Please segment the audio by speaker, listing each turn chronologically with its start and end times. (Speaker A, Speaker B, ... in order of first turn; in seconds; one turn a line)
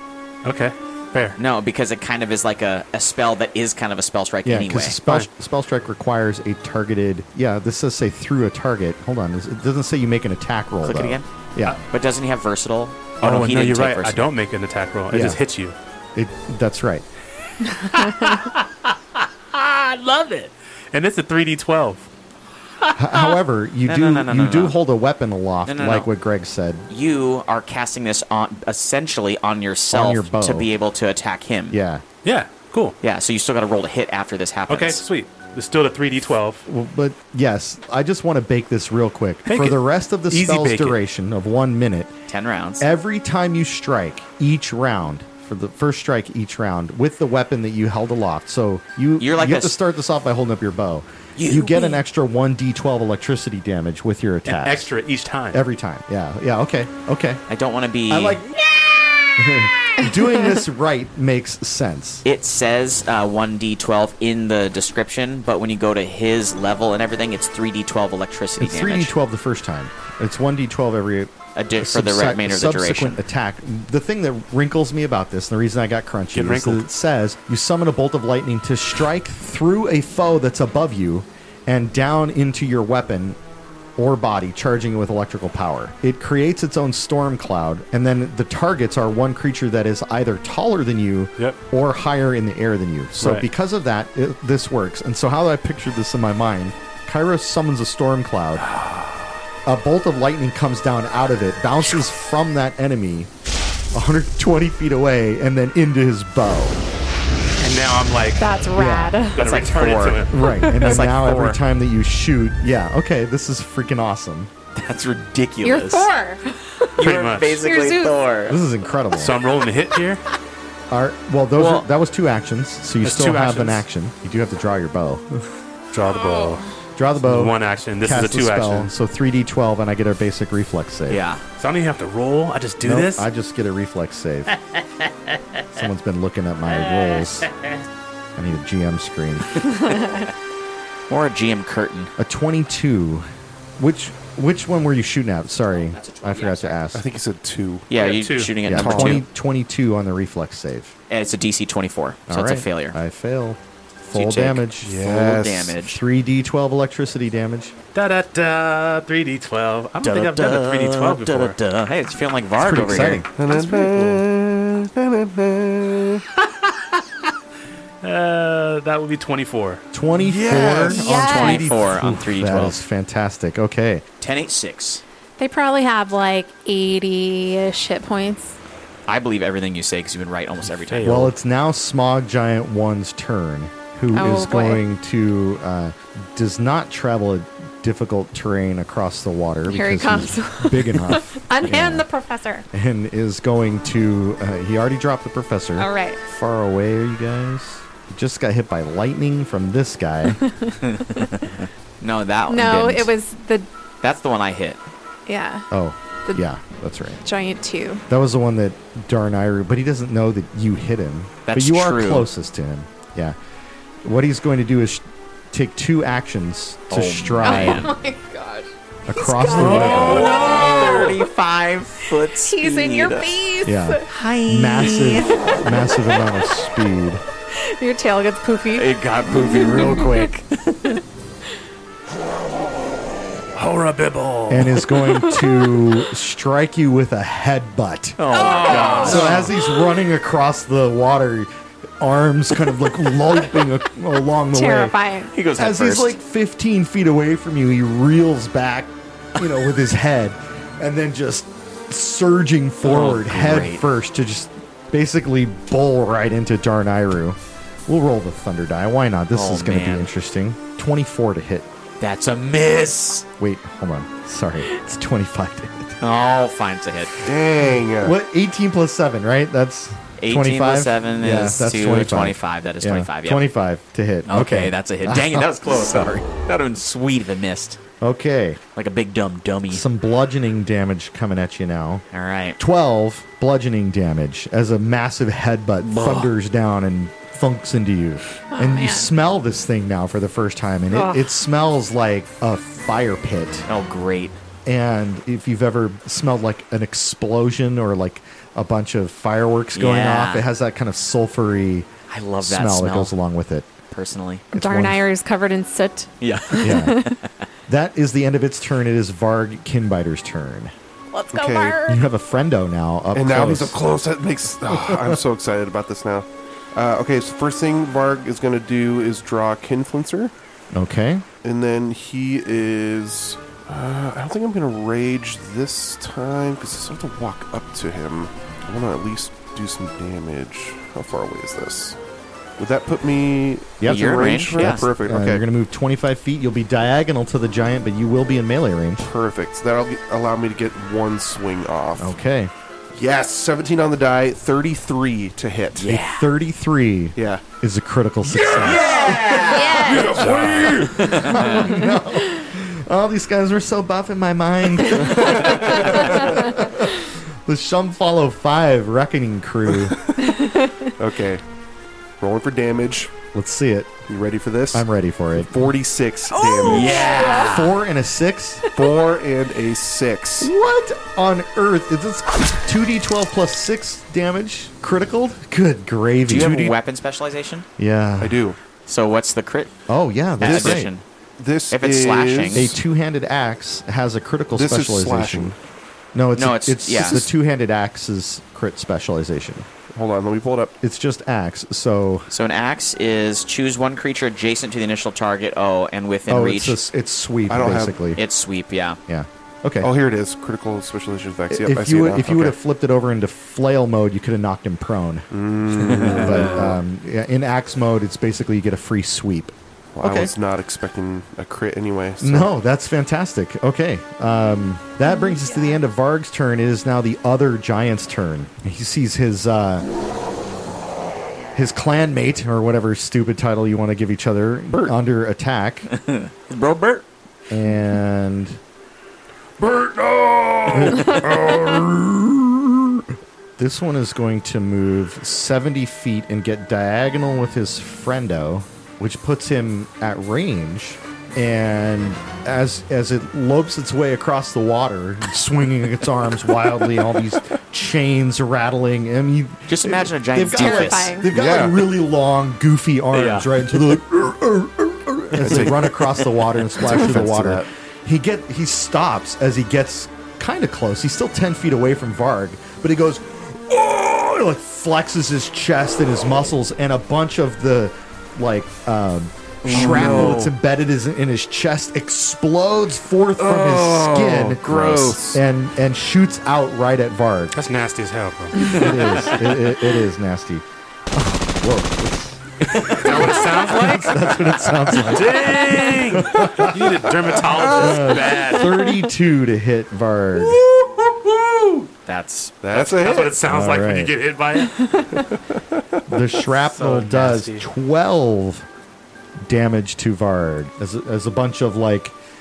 Speaker A: 0.4-1.4
Speaker B: 1.4-5.0
Speaker C: 4.5-11.8
Speaker B: 10.8-11.3
Speaker B: 11.8-14.3
Speaker A: 13.2-15.8
Speaker C: 15.1-15.4
Speaker C: 16.1-17.1
Speaker A: 17.6-22.1
Speaker A: 22.8-23.3
Speaker C: 23.0-26.9
Speaker B: 23.9-24.8
Speaker B: 25.7-26.1
Speaker B: 26.9-31.8
Speaker C: 29.9-30.7
Speaker C: 31.7-32.0
Speaker A: 32.2-33.0
Speaker B: 33.0-35.0
Speaker A: 34.7-36.6
Speaker C: 36.7-42.1
Speaker A: 39.5-41.0
Speaker B: 42.3-42.9
Speaker C: 42.8-54.9
Speaker B: 49.2-49.8
Speaker B: 51.4-52.0
Speaker A: 54.5-55.6
Speaker C: 55.5-57.4
Speaker B: 57.5-58.5
Speaker C: 58.1-58.5
Speaker C: 59.4-62.2
Speaker B: 62.2-69.1
Speaker C: 68.6-83.4
Speaker B: 71.5-73.2
Speaker A: 76.3-76.9
Speaker C: 84.0-98.7
Speaker A: 93.2-93.5
Speaker A: 98.6-99.3
Speaker C: 99.7-103.3
Speaker C: 103.9-106.8
Speaker A: 107.6-108.5
Speaker D: 108.4-109.5
Speaker C: 108.7-109.2
Speaker A: 109.3-110.8
Speaker B: 109.4-111.6
Speaker C: 110.3-114.5
Speaker B: 114.8-116.1
Speaker D: 115.6-117.0
Speaker B: 117.0-118.6
Speaker A: 117.0-117.6
Speaker D: 117.5-118.2
Speaker C: 118.5-119.4
Speaker A: 119.1-120.2
Speaker C: 120.9-125.4
Speaker B: 121.6-121.9
Speaker A: 123.0-123.8
Speaker A: 125.9-126.7
Speaker C: 127.0-131.2
Speaker A: 127.2-128.9
Speaker B: 131.1-131.4
Speaker A: 131.6-133.3
Speaker C: 132.8-134.5
Speaker C: 135.7-137.5
Speaker A: 136.9-137.3
Speaker C: 138.4-139.6
Speaker B: 141.1-142.1
Speaker C: 142.2-143.3
Speaker C: 143.8-147.1
Speaker B: 145.8-146.8
Speaker E: 146.9-147.9
Speaker B: 147.9-149.3
Speaker A: 147.9-148.6
Speaker C: 148.7-150.9
Speaker E: 148.7-149.2
Speaker B: 151.1-153.0
Speaker C: 152.3-155.0
Speaker B: 154.1-156.0
Speaker E: 154.8-155.8
Speaker C: 155.8-157.8
Speaker A: 157.9-161.6
Speaker B: 160.0-163.3
Speaker C: 162.6-163.2
Speaker A: 162.8-164.2
Speaker E: 163.4-166.2
Speaker A: 166.6-167.0
Speaker A: 168.0-169.8
Speaker C: 169.9-174.0
Speaker E: 170.2-171.0
Speaker D: 170.9-171.7
Speaker B: 170.9-172.8
Speaker B: 174.2-175.0
Speaker D: 175.4-178.6
Speaker B: 179.1-181.2
Speaker A: 180.7-181.3
Speaker C: 181.0-192.1
Speaker D: 184.1-184.8
Speaker D: 189.7-192.7
Speaker C: 192.7-200.4
Speaker D: 195.8-196.2
Speaker D: 200.5-200.7
Speaker B: 200.8-203.1
Speaker D: 202.5-203.7
Speaker B: 204.0-204.8
Speaker D: 205.3-205.7
Speaker C: 205.7-207.2
Speaker D: 207.2-208.1
Speaker C: 208.1-213.3
Speaker B: 211.5-212.3
Speaker C: 214.0-217.9
Speaker B: 216.9-217.9
Speaker D: 217.4-221.2
Speaker C: 219.1-220.3
Speaker B: 219.5-223.3
Speaker A: 219.7-221.0
Speaker D: 222.2-224.1
Speaker C: 223.7-227.2
Speaker B: 224.1-225.5
Speaker D: 224.9-226.2
Speaker D: 227.5-231.0
Speaker B: 228.7-231.0
Speaker A: 233.6-235.0
Speaker C: 234.5-238.2
Speaker D: 235.4-235.7
Speaker B: 238.2-239.5
Speaker D: 238.3-239.8
Speaker A: 238.3-239.5
Speaker C: 238.9-244.9
Speaker D: 244.5-245.3
Speaker B: 245.3-246.2
Speaker C: 245.6-261.7
Speaker B: 252.8-253.9
Speaker B: 259.3-260.1
Speaker B: 262.0-263.3
Speaker C: 263.4-266.0
Speaker B: 266.0-267.1
Speaker E: 267.2-268.2
Speaker C: 268.0-276.1
Speaker B: 270.2-273.4
Speaker B: 274.3-277.8
Speaker C: 278.0-278.6
Speaker B: 278.8-279.9
Speaker C: 279.7-282.0
Speaker B: 282.1-282.6
Speaker C: 282.6-293.7
Speaker B: 285.8-286.3
Speaker D: 288.5-289.1
Speaker B: 293.7-294.4
Speaker C: 294.7-301.9
Speaker B: 299.8-300.5
Speaker B: 302.1-303.1
Speaker C: 302.4-303.7
Speaker B: 303.9-304.5
Speaker D: 304.5-307.2
Speaker C: 304.5-305.0
Speaker B: 306.2-307.3
Speaker C: 306.6-307.0
Speaker C: 307.7-310.7
Speaker D: 311.1-312.0
Speaker E: 311.3-311.8
Speaker C: 311.9-313.8
Speaker E: 313.1-320.3
Speaker C: 320.7-321.2
Speaker E: 321.4-332.0
Speaker E: 332.6-335.4
Speaker C: 333.8-339.1
Speaker B: 333.9-334.9
Speaker E: 339.0-342.2
Speaker C: 342.0-342.5
Speaker E: 342.9-346.0
Speaker B: 345.8-346.3
Speaker C: 345.9-349.1
Speaker E: 347.2-347.4
Speaker E: 348.3-351.4
Speaker B: 348.5-351.7
Speaker D: 349.4-350.3
Speaker A: 350.1-350.9
Speaker C: 350.3-360.0
Speaker E: 359.7-360.4
Speaker D: 360.2-360.9
Speaker E: 361.0-361.4
Speaker E: 362.2-363.1
Speaker C: 363.3-363.9
Speaker E: 364.1-367.2
Speaker C: 364.7-365.5
Speaker D: 366.5-367.6
Speaker B: 366.6-367.8
Speaker C: 367.4-368.6
Speaker E: 368.7-370.5
Speaker C: 370.4-376.8
Speaker B: 376.3-377.7
Speaker C: 377.8-378.4
Speaker E: 378.2-378.6
Speaker B: 378.9-379.7
Speaker C: 379.9-380.9
Speaker B: 380.4-381.0
Speaker E: 380.4-380.9
Speaker E: 381.4-382.8
Speaker B: 381.7-382.7
Speaker C: 382.5-385.6
Speaker E: 384.5-385.6
Speaker C: 386.1-389.7
Speaker B: 386.4-387.3
Speaker E: 387.0-387.3
Speaker E: 389.9-390.8
Speaker C: 390.8-392.3
Speaker B: 392.3-396.8
Speaker C: 396.3-398.2
Speaker E: 397.5-398.0
Speaker B: 398.2-399.0
Speaker C: 399.1-399.9
Speaker E: 399.8-402.6
Speaker C: 401.5-405.3
Speaker E: 405.3-406.8
Speaker C: 405.8-410.3
Speaker E: 409.9-412.5
Speaker C: 412.2-419.9
Speaker D: 415.1-415.8
Speaker C: 421.6-425.9
Speaker B: 425.9-427.0
Speaker C: 427.5-428.6
Speaker C: 429.6-433.0
Speaker C: 433.6-477.6
Speaker B: 449.7-451.2
Speaker D: 450.5-451.3
Speaker E: 451.3-451.9
Speaker B: 453.2-453.4
Speaker E: 455.4-456.1
Speaker B: 455.4-456.2
Speaker B: 456.8-457.1
Speaker E: 456.8-457.7
Speaker B: 469.6-470.5
Speaker E: 469.7-470.4
Speaker E: 473.4-475.4
Speaker B: 474.5-475.4
Speaker A: 477.5-479.4
Speaker C: 478.6-490.6
Speaker A: 482.7-489.0
Speaker B: 482.9-483.4
Speaker E: 487.4-488.1
Speaker B: 492.1-493.3
Speaker E: 492.6-493.4
Speaker A: 492.9-494.8
Speaker C: 493.4-494.2
Speaker D: 494.9-495.2
Speaker E: 495.2-496.0
Speaker C: 496.1-498.7
Speaker A: 496.6-497.7
Speaker C: 499.5-502.1